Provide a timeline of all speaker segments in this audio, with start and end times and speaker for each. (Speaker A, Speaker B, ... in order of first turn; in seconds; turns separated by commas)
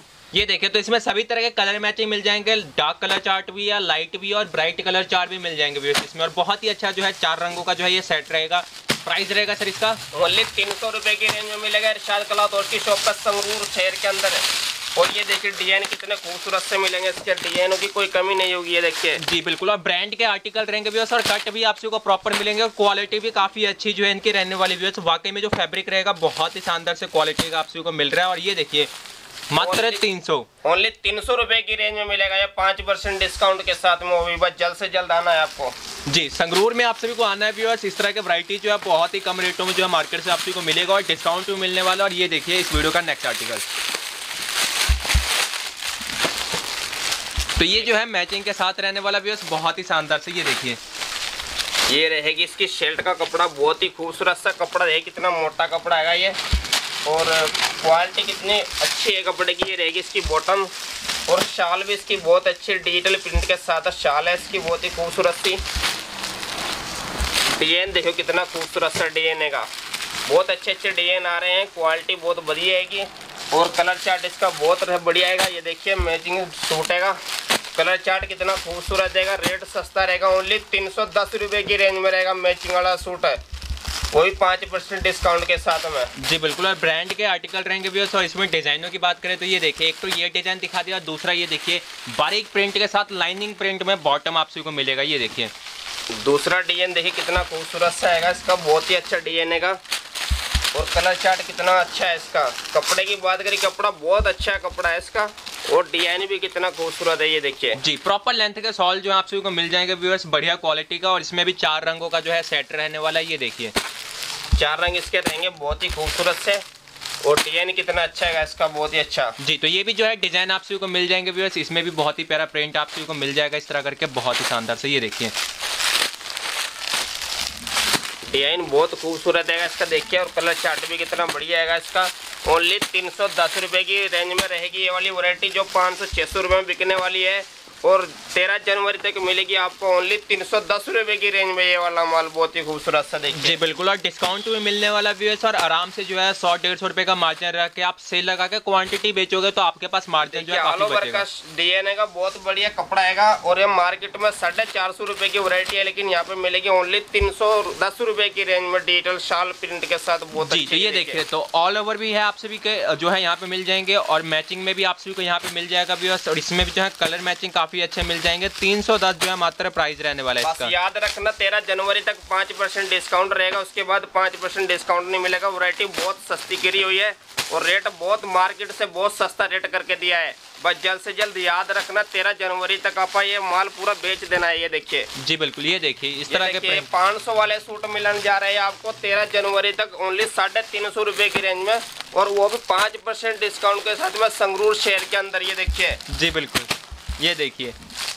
Speaker A: 0.3-10.0, Speaker B: 10.1-14.4, Speaker B: 14.9-19.2, Speaker A: 19.2-28.9, Speaker A: 29.5-30.5, Speaker B: 29.6-30.0, Speaker B: 30.6-35.8, Speaker A: 36.0-43.7, Speaker A: 47.6-50.8, Speaker B: 51.9-56.4, Speaker B: 57.0-60.7, Speaker B: 61.3-65.6, Speaker B: 67.6-69.7, Speaker B: 70.3-77.2, Speaker B: 77.7-83.4, Speaker B: 84.1-86.1, Speaker A: 86.2-95.5, Speaker B: 96.1-99.8, Speaker B: 100.7-107.8, Speaker A: 107.8-113.7, Speaker B: 114.6-116.6, Speaker B: 117.2-119.3, Speaker A: 119.4-125.3, Speaker B: 128.3-143.6, Speaker A: 143.3-151.2, Speaker B: 150.3-161.2, Speaker A: 160.4-170.7, Speaker B: 170.4-185.1, Speaker A: 185.1-186.9, Speaker B: 186.3-196.0, Speaker A: 196.1-197.8